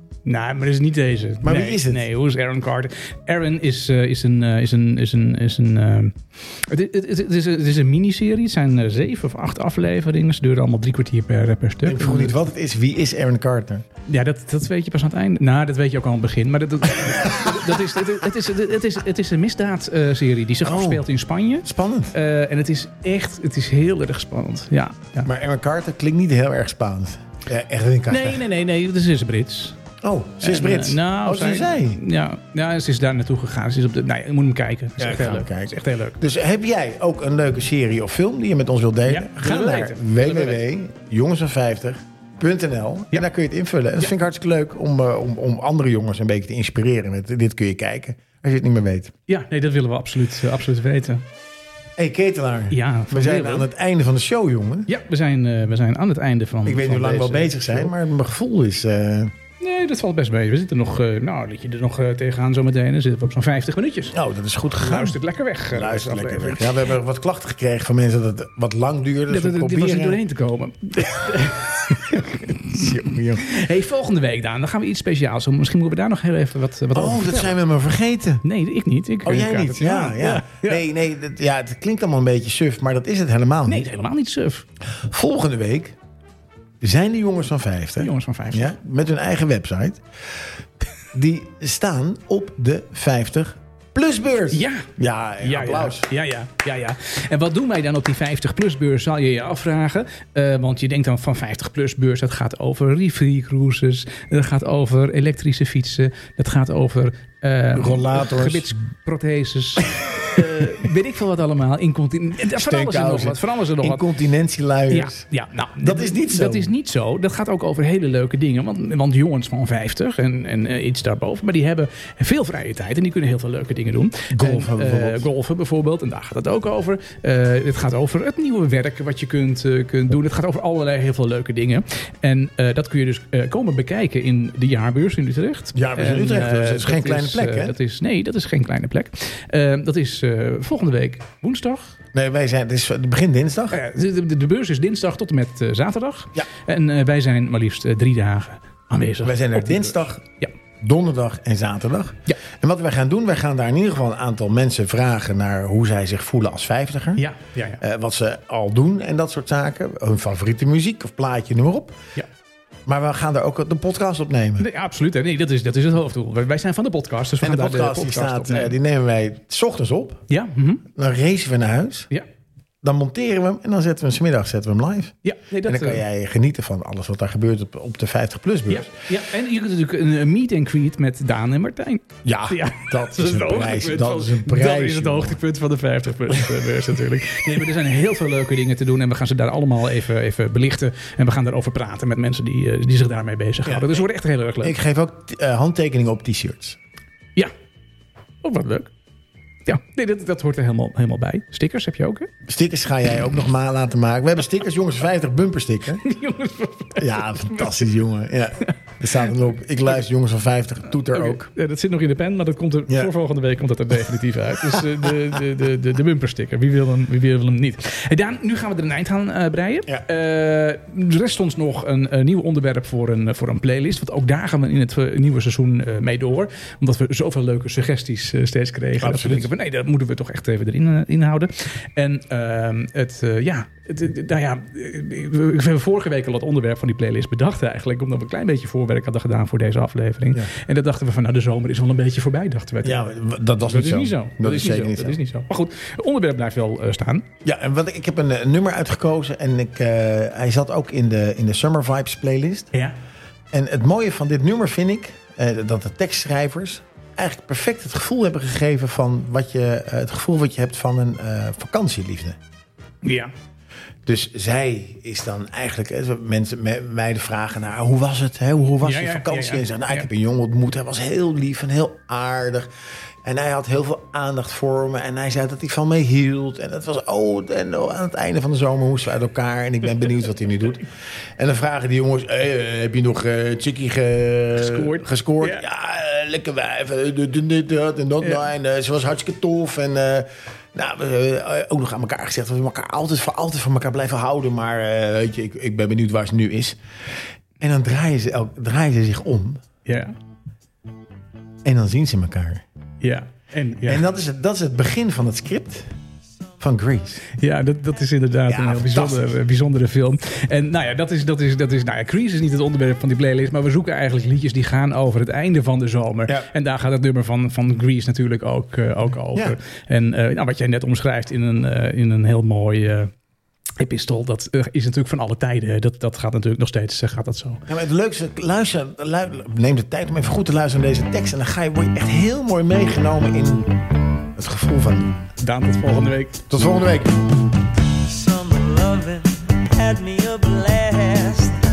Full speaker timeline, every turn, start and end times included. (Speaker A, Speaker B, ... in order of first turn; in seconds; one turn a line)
Speaker A: 0.2-12.3
Speaker B: 1.4-2.0
Speaker B: 11.8-13.8
Speaker A: 14.1-25.3
Speaker B: 20.6-21.0
Speaker B: 21.6-22.1
Speaker B: 25.2-28.4
Speaker A: 28.1-29.8
Speaker B: 30.0-32.0
Speaker A: 30.4-36.2
Speaker B: 35.0-49.1
Speaker A: 39.0-40.6
Speaker A: 49.3-51.2
Speaker B: 52.0-54.9
Speaker A: 52.7-53.7
Speaker A: 54.9-57.9
Speaker B: 56.6-59.3
Speaker A: 59.6-64.1
Speaker B: 64.1-65.2
Speaker A: 64.8-66.8
Speaker B: 65.7-70.2
Speaker A: 69.3-77.5
Speaker B: 72.5-73.5
Speaker B: 76.9-78.4
Speaker A: 78.4-80.8
Speaker B: 79.2-83.8
Speaker A: 83.7-84.7
Speaker B: 84.9-86.0
Speaker B: 86.8-90.0
Speaker A: 88.0-88.8
Speaker B: 91.1-96.1
Speaker A: 94.5-94.9
Speaker A: 95.4-114.0
Speaker B: 107.7-108.7
Speaker B: 112.5-115.3
Speaker A: 114.9-141.9
Speaker B: 115.8-116.7
Speaker B: 124.3-125.2
Speaker B: 135.7-137.7
Speaker B: 142.1-143.8
Speaker A: 143.7-150.5
Speaker B: 149.2-150.2
Speaker B: 150.8-157.3
Speaker A: 157.2-157.8
Speaker B: 157.8-162.0
Speaker B: 162.8-164.7
Speaker A: 164.6-168.7
Speaker B: 167.4-170.2
Speaker A: 170.3-170.8
Speaker B: 170.9-172.1
Speaker B: 172.8-178.9
Speaker A: 175.2-176.0
Speaker A: 178.7-194.8
Speaker B: 182.2-185.4
Speaker B: 193.7-194.0
Speaker B: 194.6-196.8
Speaker A: 198.4-198.9
Speaker A: 199.6-202.3
Speaker B: 202.5-206.0
Speaker A: 206.0-207.9
Speaker B: 207.0-211.5
Speaker A: 211.1-243.1
Speaker B: 228.9-229.5
Speaker B: 242.8-245.2
Speaker A: 243.6-247.3
Speaker B: 247.4-252.7
Speaker B: 253.5-262.4
Speaker A: 263.0-263.3
Speaker B: 264.1-272.7
Speaker A: 268.8-270.1
Speaker B: 273.2-296.8
Speaker A: 284.6-285.6
Speaker B: 297.6-299.6
Speaker A: 299.8-300.1
Speaker B: 301.6-302.6
Speaker A: 303.0-304.1
Speaker B: 303.8-305.9
Speaker B: 306.6-307.3
Speaker A: 307.3-323.1
Speaker B: 308.5-309.3
Speaker A: 323.8-327.6
Speaker B: 327.7-333.7
Speaker B: 334.4-335.3
Speaker A: 335.4-336.4
Speaker B: 336.5-337.1
Speaker C: 338.0-341.6